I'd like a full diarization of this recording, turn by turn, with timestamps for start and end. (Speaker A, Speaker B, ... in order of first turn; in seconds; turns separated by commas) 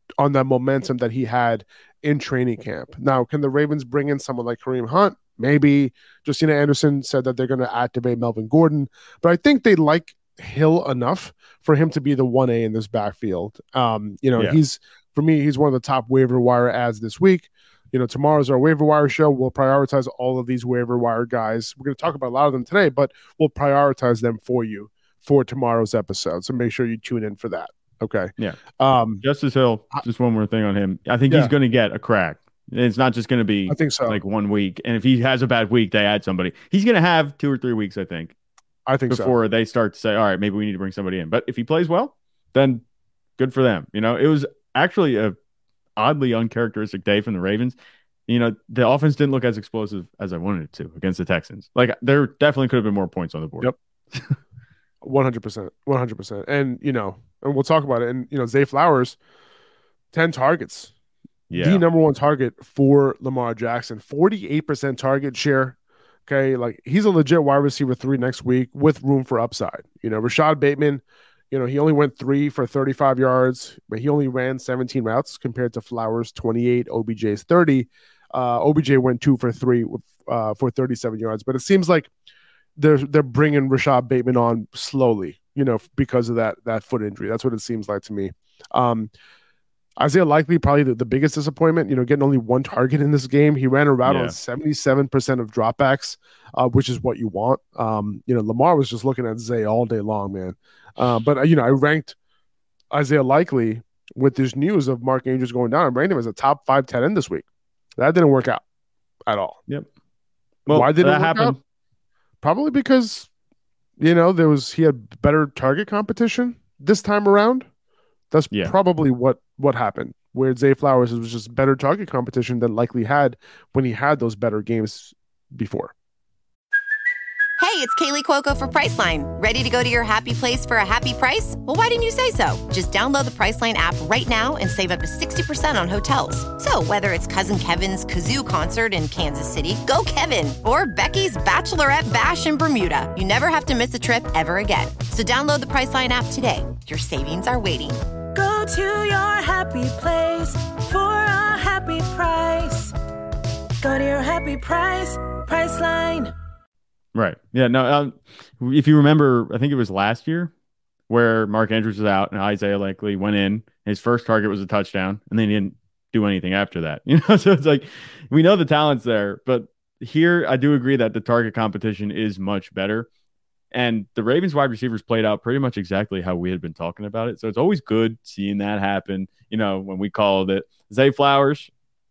Speaker A: 0.2-29.2, Speaker B: 29.2-38.3, Speaker A: 31.3-31.5, Speaker A: 33.7-34.2, Speaker A: 38.9-39.4, Speaker B: 39.1-42.8, Speaker B: 43.4-45.4, Speaker B: 46.0-47.8, Speaker B: 48.3-54.3, Speaker A: 55.0-59.2, Speaker A: 60.1-60.9, Speaker B: 61.5-61.8, Speaker A: 61.6-82.1, Speaker A: 82.8-89.1, Speaker A: 90.0-102.2, Speaker B: 94.0-94.4, Speaker A: 102.9-108.6, Speaker A: 109.3-109.6, Speaker B: 110.7-111.6, Speaker A: 110.7-111.6, Speaker A: 112.4-113.3, Speaker A: 114.0-117.7, Speaker A: 118.3-125.9, Speaker C: 127.6-148.0, Speaker D: 148.3-152.9, Speaker D: 153.8-156.3, Speaker B: 157.1-160.5, Speaker B: 161.1-173.1, Speaker B: 173.7-181.7